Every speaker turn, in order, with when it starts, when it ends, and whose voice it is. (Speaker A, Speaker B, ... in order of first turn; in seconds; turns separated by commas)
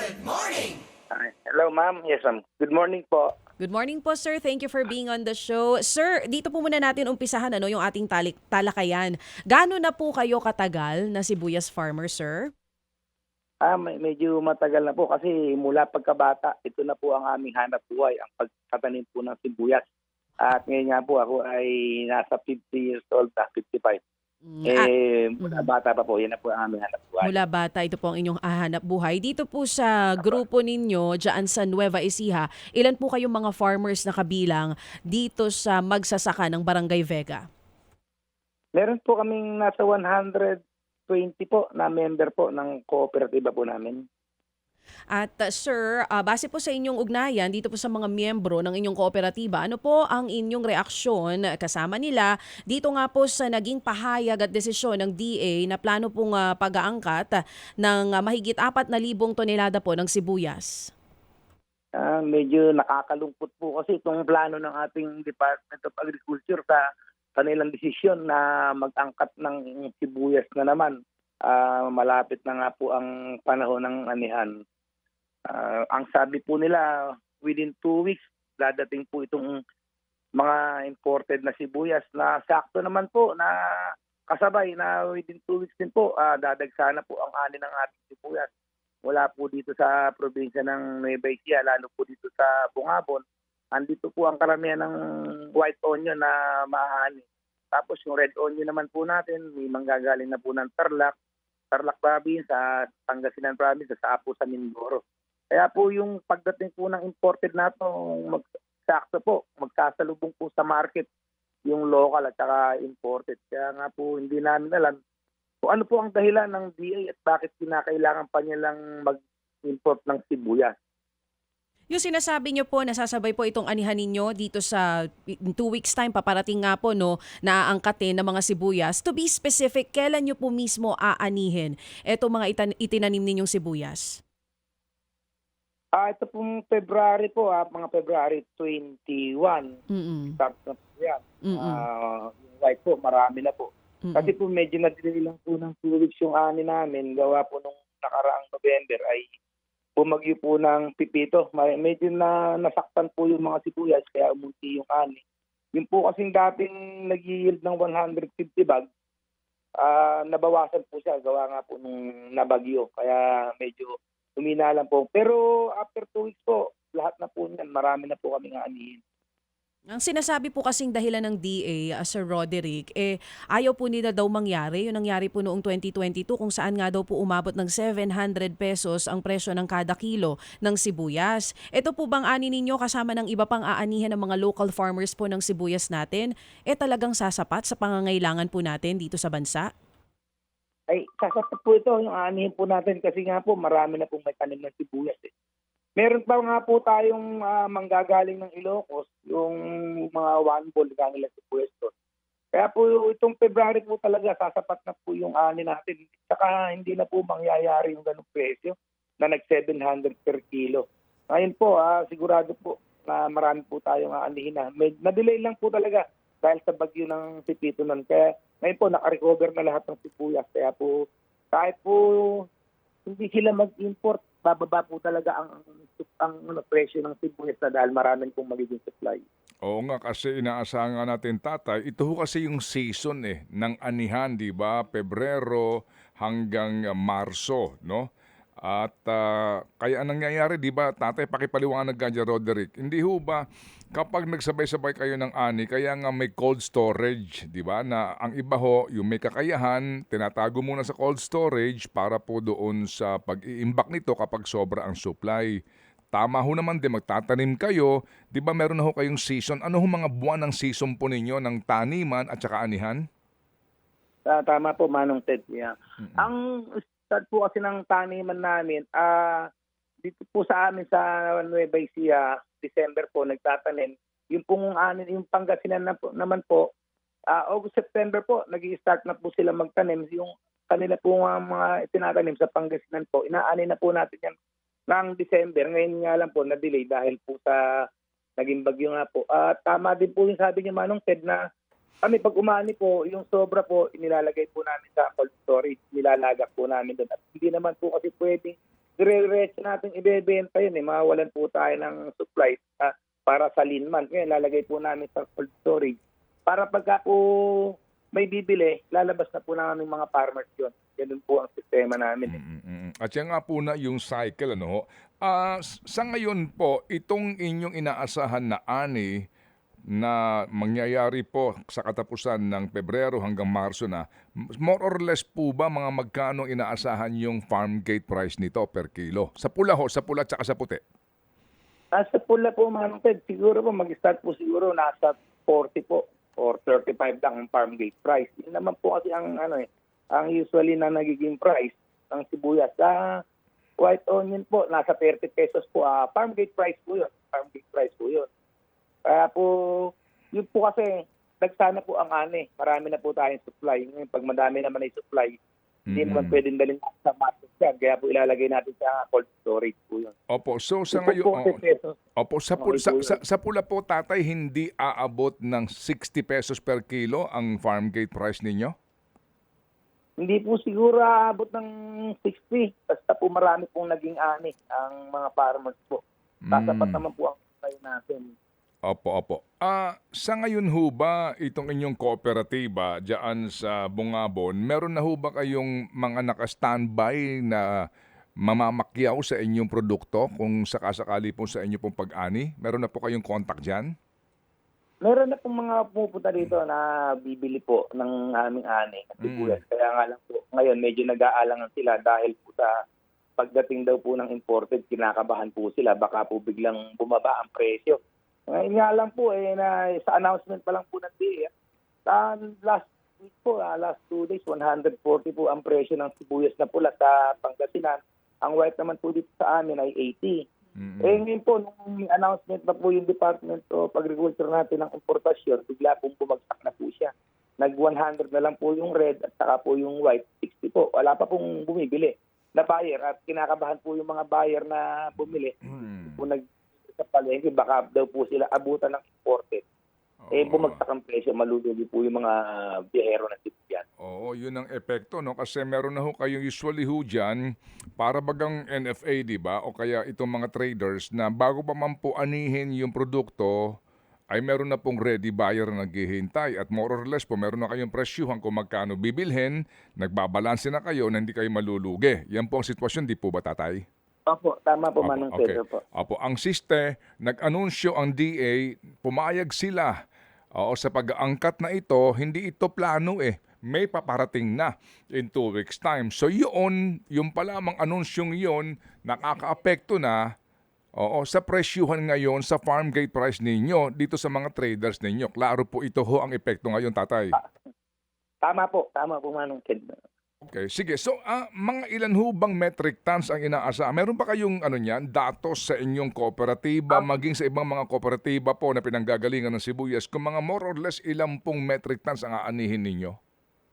Speaker A: 1.1-3.3, Speaker B: 3.6-12.5, Speaker A: 13.6-19.8, Speaker A: 20.4-24.0, Speaker B: 24.5-25.7, Speaker A: 24.7-27.4, Speaker B: 27.2-37.5, Speaker A: 38.7-44.0, Speaker B: 45.1-60.9, Speaker A: 61.9-74.5, Speaker A: 75.5-79.6, Speaker A: 80.3-88.5, Speaker A: 89.0-94.9, Speaker A: 95.5-101.1, Speaker A: 101.7-111.1, Speaker A: 111.6-115.0, Speaker A: 115.6-120.7, Speaker B: 121.9-134.2, Speaker A: 135.9-139.8, Speaker B: 139.9-140.4, Speaker A: 140.4-149.3, Speaker B: 141.4-141.8, Speaker B: 144.0-144.3, Speaker A: 150.0-155.2, Speaker A: 155.7-158.9, Speaker A: 159.8-169.0, Speaker B: 169.9-189.7, Speaker A: 190.9-195.3, Speaker A: 196.0-201.9, Speaker A: 202.5-222.5, Speaker A: 223.1-229.2, Speaker C: 229.6-238.1, Speaker C: 238.6-255.5, Speaker C: 256.1-263.0, Speaker A: 264.2-269.5, Speaker C: 266.0-266.3, Speaker A: 270.0-276.7, Speaker A: 277.3-284.3, Speaker A: 284.9-287.8, Speaker A: 288.4-291.4, Speaker A: 292.0-312.4, Speaker C: 312.3-319.1, Speaker C: 319.9-330.8, Speaker A: 331.9-343.2, Speaker A: 343.8-348.3, Speaker A: 349.0-355.4, Speaker C: 355.9-356.4, Speaker A: 355.9-360.1, Speaker C: 360.3-361.6, Speaker A: 360.9-361.9, Speaker C: 362.2-368.7, Speaker A: 362.6-363.2, Speaker A: 370.2-376.0, Speaker C: 376.4-377.0, Speaker A: 376.5-378.3, Speaker C: 378.9-387.8, Speaker C: 388.4-393.9, Speaker A: 395.0-402.7, Speaker C: 399.2-399.6, Speaker A: 403.4-411.5, Speaker A: 412.1-420.4, Speaker C: 420.8-421.2, Speaker A: 421.0-439.6, Speaker C: 435.7-436.2, Speaker C: 440.2-440.8, Speaker A: 440.3-443.8, Speaker C: 444.0-453.6, Speaker C: 454.3-463.8, Speaker A: 464.3-465.8, Speaker C: 465.0-469.9, Speaker C: 470.6-480.2, Speaker C: 481.0-487.4, Speaker A: 488.4-490.0, Speaker C: 490.4-503.2